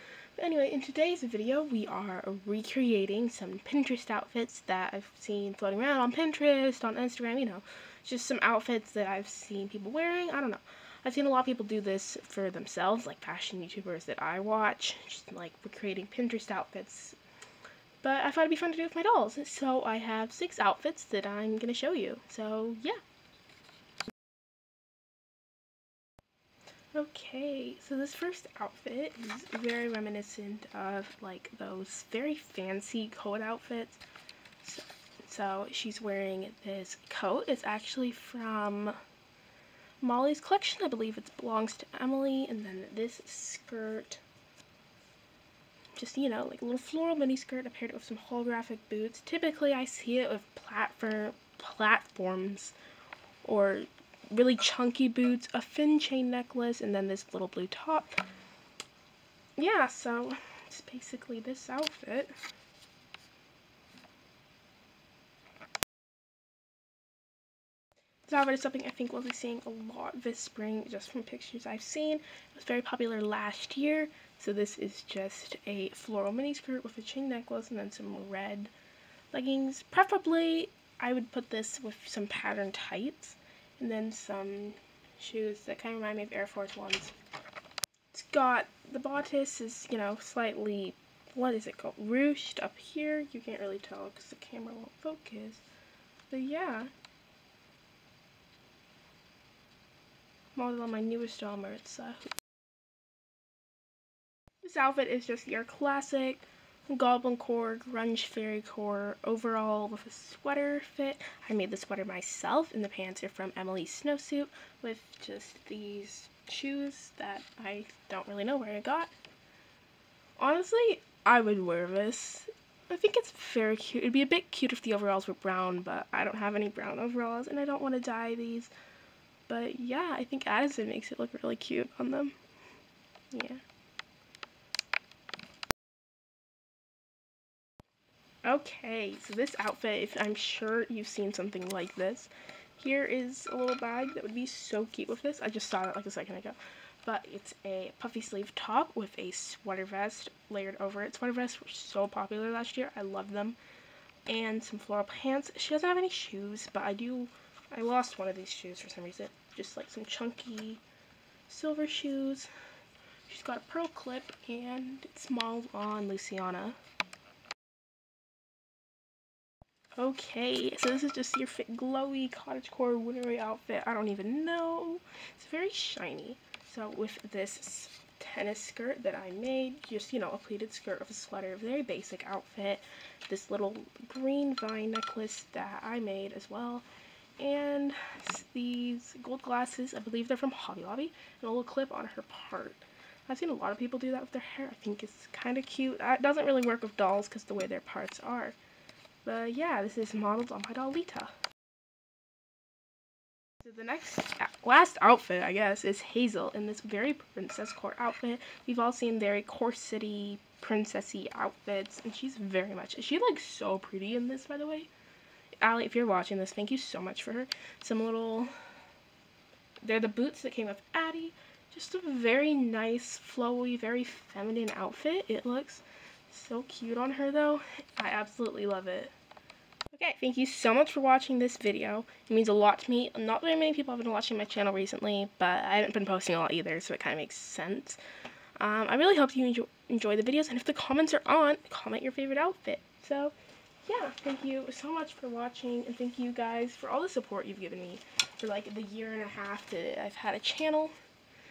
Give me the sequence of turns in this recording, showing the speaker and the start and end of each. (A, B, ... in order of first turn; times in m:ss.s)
0:00.4-0:17.2 A
0:18.0-0:23.0 A
0:26.9-0:34.0 A
0:34.6-0:39.0 A
0:40.0-0:44.2 A
0:46.0-0:52.7 A
0:53.4-0:58.2 A
0:59.6-1:02.3 A
1:08.2-1:18.7 A
1:19.3-1:27.1 A
1:28.1-1:35.6 A
1:36.3-1:36.9 A
1:40.5-1:42.3 A
1:44.6-1:59.1 A
2:00.4-2:08.7 A
2:09.5-2:12.4 A
2:13.3-2:13.6 A
2:18.4-2:33.6 A
2:34.3-2:40.8 A
2:41.5-2:42.5 A
2:43.3-2:46.8 A
2:50.0-3:06.8 A
3:07.4-3:18.6 A
3:19.2-3:21.3 A
3:23.6-3:34.9 A
3:35.6-3:38.5 A
3:39.8-3:49.1 A
3:49.9-3:58.0 A
3:58.6-4:03.3 A
4:03.8-4:10.9 A